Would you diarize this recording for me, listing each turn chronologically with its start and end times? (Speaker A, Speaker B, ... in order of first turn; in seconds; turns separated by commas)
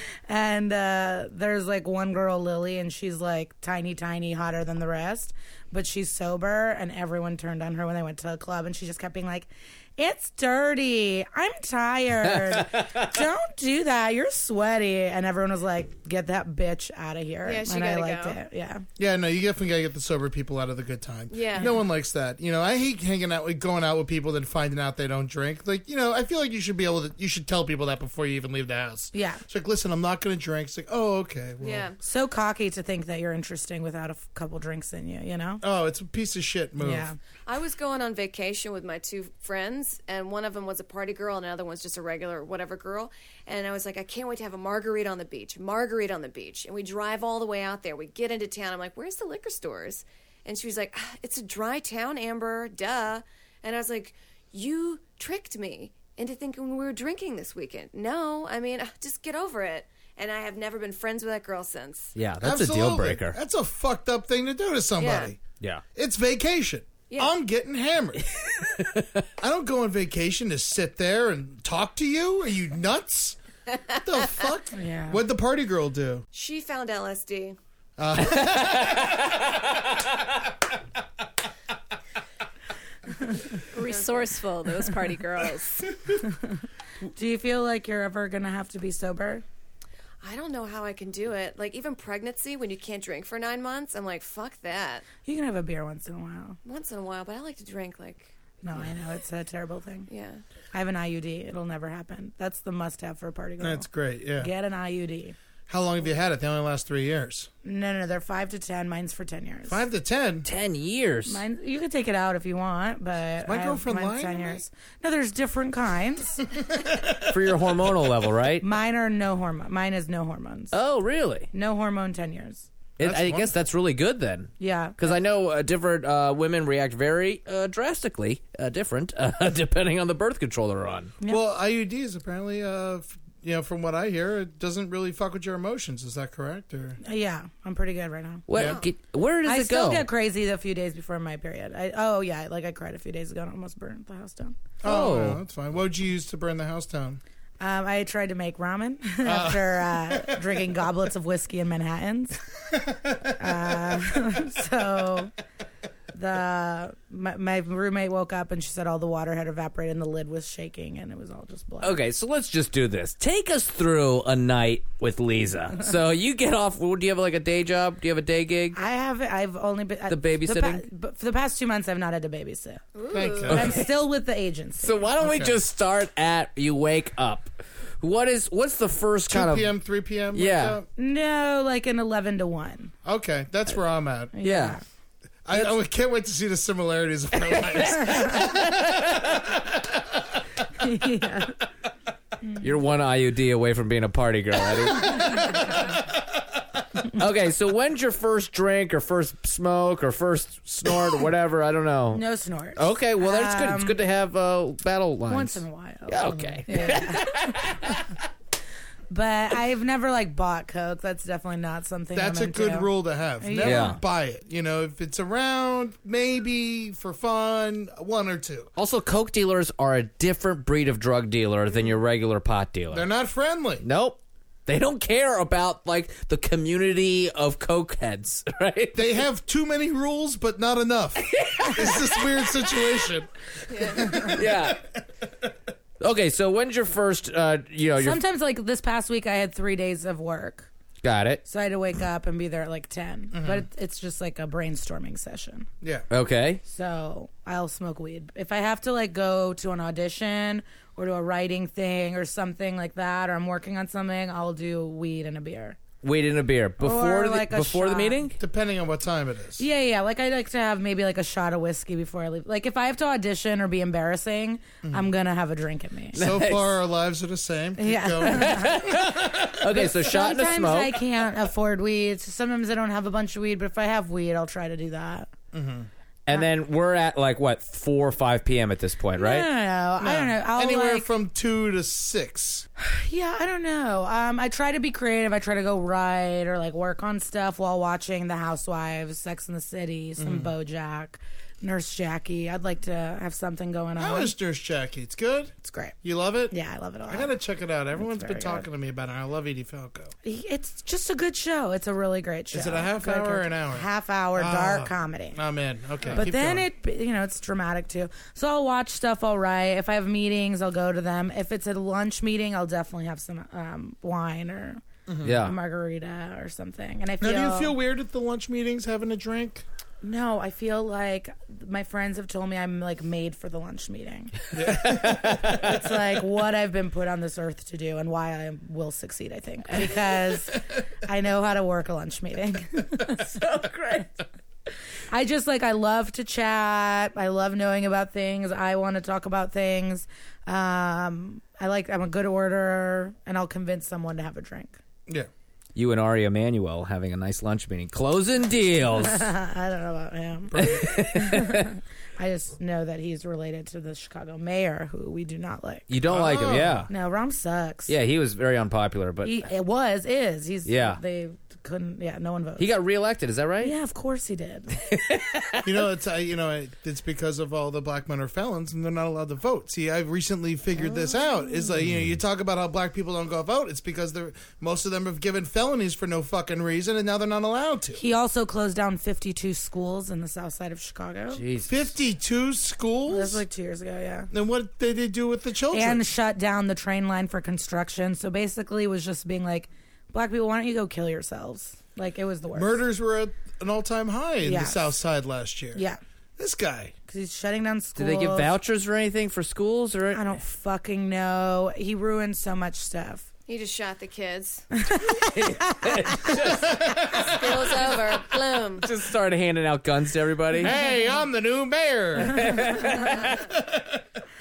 Speaker A: 0.3-18.8, Speaker B: 12.5-13.0, Speaker C: 17.4-18.4, Speaker D: 19.0-31.9, Speaker C: 21.3-21.7, Speaker A: 29.1-29.4, Speaker C: 31.6-32.0, Speaker A: 32.0-35.6, Speaker D: 35.6-37.1, Speaker A: 36.8-37.2, Speaker C: 37.5-62.1, Speaker B: 62.1-63.4, Speaker D: 62.4-65.4, Speaker C: 65.0-65.3, Speaker D: 65.9-68.3, Speaker B: 68.6-69.1, Speaker D: 69.4-73.4, Speaker D: 73.9-76.2, Speaker A: 74.7-75.2, Speaker C: 76.3-77.6, Speaker D: 78.0-79.3, Speaker B: 78.2-79.2, Speaker E: 83.7-86.0, Speaker C: 83.8-84.3, Speaker A: 86.2-86.6, Speaker A: 87.1-89.4, Speaker C: 90.2-95.0, Speaker A: 95.2-96.6, Speaker C: 96.6-98.3, Speaker A: 98.6-100.1, Speaker C: 100.1-100.4, Speaker A: 100.7-103.9, Speaker D: 103.6-104.5, Speaker A: 104.4-105.3, Speaker D: 105.7-107.5, Speaker A: 107.6-109.8, Speaker D: 109.7-110.5, Speaker B: 110.4-111.4, Speaker A: 111.3-116.5, Speaker D: 113.4-114.6, Speaker D: 116.7-117.3, Speaker B: 117.2-118.6, Speaker A: 118.6-120.8, Speaker B: 120.7-121.5, Speaker A: 121.5-122.7, Speaker B: 123.0-131.1, Speaker D: 123.0-123.5, Speaker A: 124.6-125.0, Speaker D: 131.3-137.0, Speaker A: 137.0-138.4, Speaker B: 138.5-140.1, Speaker D: 138.5-138.8, Speaker C: 138.5-138.9, Speaker A: 139.4-144.6, Speaker B: 144.8-145.4, Speaker D: 144.8-147.2, Speaker A: 147.6-152.4, Speaker D: 149.2-150.4, Speaker D: 153.0-153.3, Speaker A: 153.4-155.3, Speaker A: 156.1-162.0, Speaker B: 161.8-168.8, Speaker A: 168.7-172.8, Speaker B: 170.1-170.8, Speaker C: 172.9-173.6, Speaker D: 173.1-173.8, Speaker A: 173.5-175.0, Speaker B: 173.5-173.8, Speaker B: 174.8-179.7, Speaker D: 175.2-175.6, Speaker D: 179.3-180.8, Speaker B: 180.3-180.8, Speaker A: 180.9-182.9, Speaker D: 183.0-184.3, Speaker A: 184.3-184.8, Speaker B: 184.4-184.8, Speaker D: 185.4-190.2, Speaker B: 187.7-189.4, Speaker A: 190.8-191.6, Speaker B: 192.6-195.7, Speaker B: 197.0-202.2, Speaker A: 202.1-204.0, Speaker B: 202.8-208.1, Speaker A: 205.3-207.6, Speaker A: 209.1-213.9, Speaker D: 212.1-218.7, Speaker B: 213.6-214.0, Speaker B: 218.8-223.1, Speaker D: 222.9-223.8, Speaker B: 223.8-229.1, Speaker D: 228.9-234.8, Speaker B: 231.2-232.9, Speaker C: 233.7-234.3, Speaker B: 234.1-234.8, Speaker B: 236.0-238.2, Speaker A: 238.0-240.7, Speaker B: 241.0-241.4, Speaker A: 241.4-245.7, Speaker D: 243.3-243.7, Speaker B: 246.1-246.6, Speaker A: 246.6-255.8, Speaker B: 256.0-258.3, Speaker A: 256.8-258.3, Speaker D: 258.4-259.6, Speaker A: 259.6-266.2, Speaker D: 264.8-265.1, Speaker B: 266.1-266.7, Speaker D: 266.1-269.5, Speaker A: 267.8-275.3, Speaker B: 268.2-270.9, Speaker D: 275.5-275.9, Speaker B: 276.3-279.5, Speaker A: 279.2-281.1, Speaker D: 280.0-282.6, Speaker A: 282.8-294.3, Speaker D: 290.2-290.5, Speaker D: 294.0-296.5, Speaker A: 295.6-295.9, Speaker A: 296.5-297.3, Speaker D: 297.1-300.1, Speaker A: 297.9-298.6, Speaker A: 300.2-305.4, Speaker D: 302.5-306.7, Speaker A: 306.1-314.8, Speaker D: 315.1-315.4, Speaker B: 315.2-315.5, Speaker A: 315.3-317.8, Speaker D: 317.2-319.6, Speaker A: 320.0-333.3, Speaker D: 324.5-325.4, Speaker B: 324.7-325.7, Speaker B: 333.2-334.2, Speaker A: 335.1-344.8, Speaker B: 345.7-349.3, Speaker A: 349.0-355.9, Speaker D: 350.5-350.9, Speaker B: 350.6-351.7, Speaker B: 355.9-356.9, Speaker D: 356.1-356.9, Speaker A: 356.9-357.9, Speaker B: 357.9-359.4, Speaker A: 359.2-362.7, Speaker B: 360.6-361.0, Speaker B: 362.6-363.7, Speaker A: 363.6-364.8, Speaker B: 364.8-365.6, Speaker D: 365.6-378.0, Speaker A: 370.8-371.6, Speaker A: 377.9-381.4, Speaker B: 381.3-381.9, Speaker D: 381.6-383.4, Speaker A: 383.1-384.3, Speaker D: 384.3-386.0, Speaker A: 385.7-392.8, Speaker D: 392.6-395.8, Speaker A: 394.4-394.9, Speaker A: 395.7-396.0, Speaker D: 396.4-396.9, Speaker A: 397.1-398.5, Speaker B: 397.9-400.4, Speaker A: 400.1-403.3, Speaker C: 403.5-404.6, Speaker A: 404.8-406.4, Speaker B: 405.1-410.7, Speaker D: 406.6-407.4, Speaker C: 407.2-408.9, Speaker D: 410.6-414.0, Speaker B: 412.2-413.4, Speaker A: 412.4-413.1